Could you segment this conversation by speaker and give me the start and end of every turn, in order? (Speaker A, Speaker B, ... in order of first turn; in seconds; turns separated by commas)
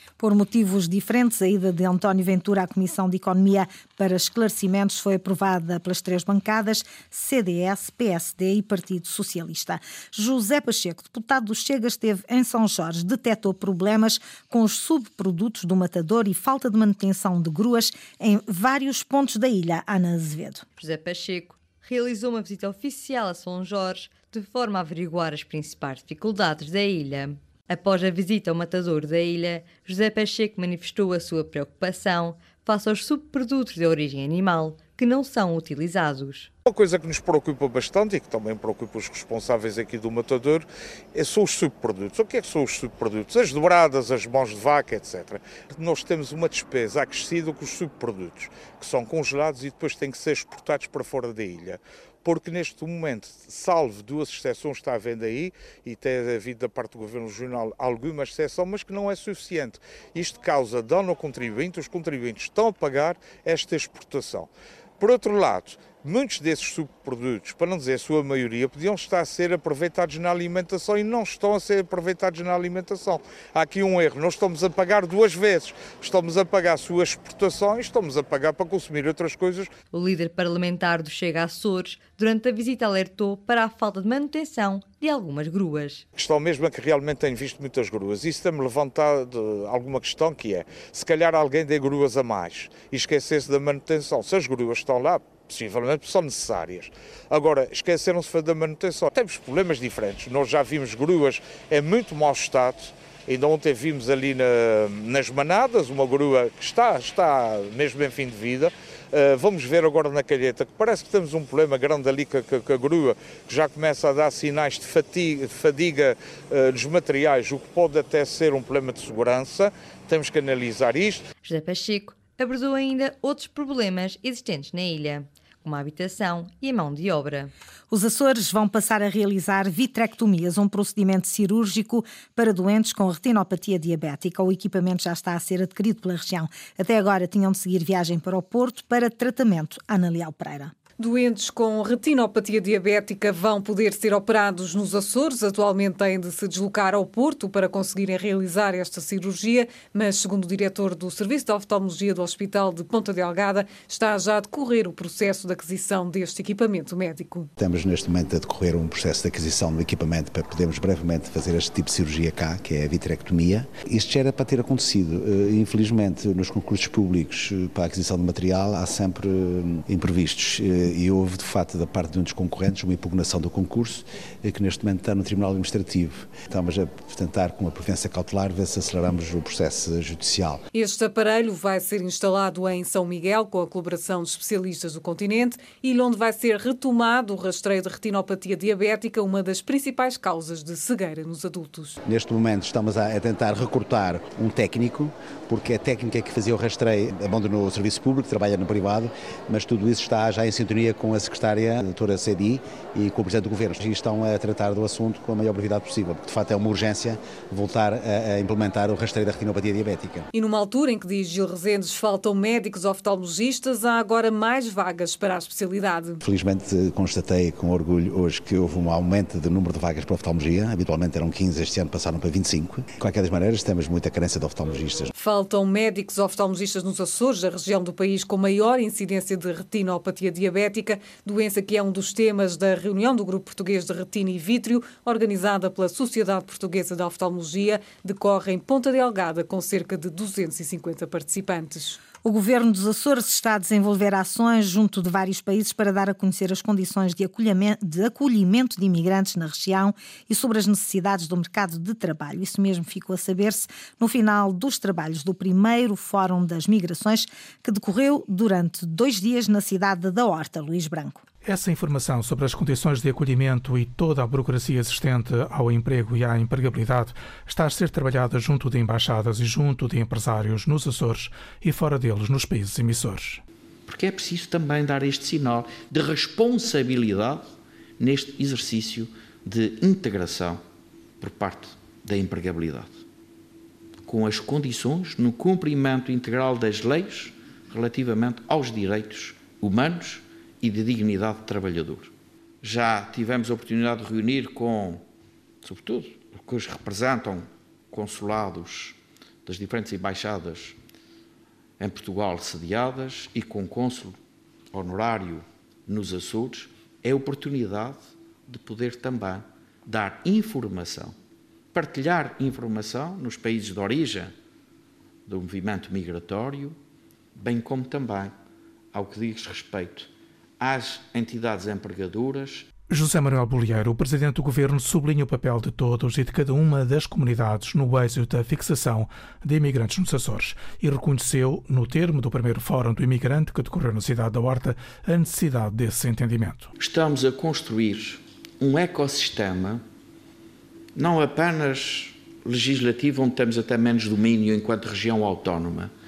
Speaker A: 0.2-20.6, Speaker B: 20.8-36.5, Speaker C: 36.6-79.7, Speaker B: 79.9-86.0, Speaker C: 86.2-121.2, Speaker B: 121.4-127.5, Speaker A: 127.9-140.7, Speaker D: 141.0-157.5, Speaker E: 157.6-180.6, Speaker D: 180.7-192.0, Speaker E: 192.0-210.3, Speaker D: 210.3-216.2, Speaker E: 216.2-225.1, Speaker D: 225.2-242.0, Speaker A: 242.2-261.2, Speaker F: 261.4-273.4, Speaker G: 273.9-277.5, Speaker G: 278.0-280.6, Speaker G: 281.2-283.0, Speaker G: 284.1-295.0, Speaker G: 295.6-300.8, Speaker G: 301.8-304.2, Speaker G: 304.7-311.1, Speaker G: 311.7-314.3, Speaker G: 315.3-316.8, Speaker G: 317.4-318.3, Speaker G: 318.9-322.6, Speaker F: 322.9-336.7, Speaker G: 336.8-339.8, Speaker G: 340.9-345.9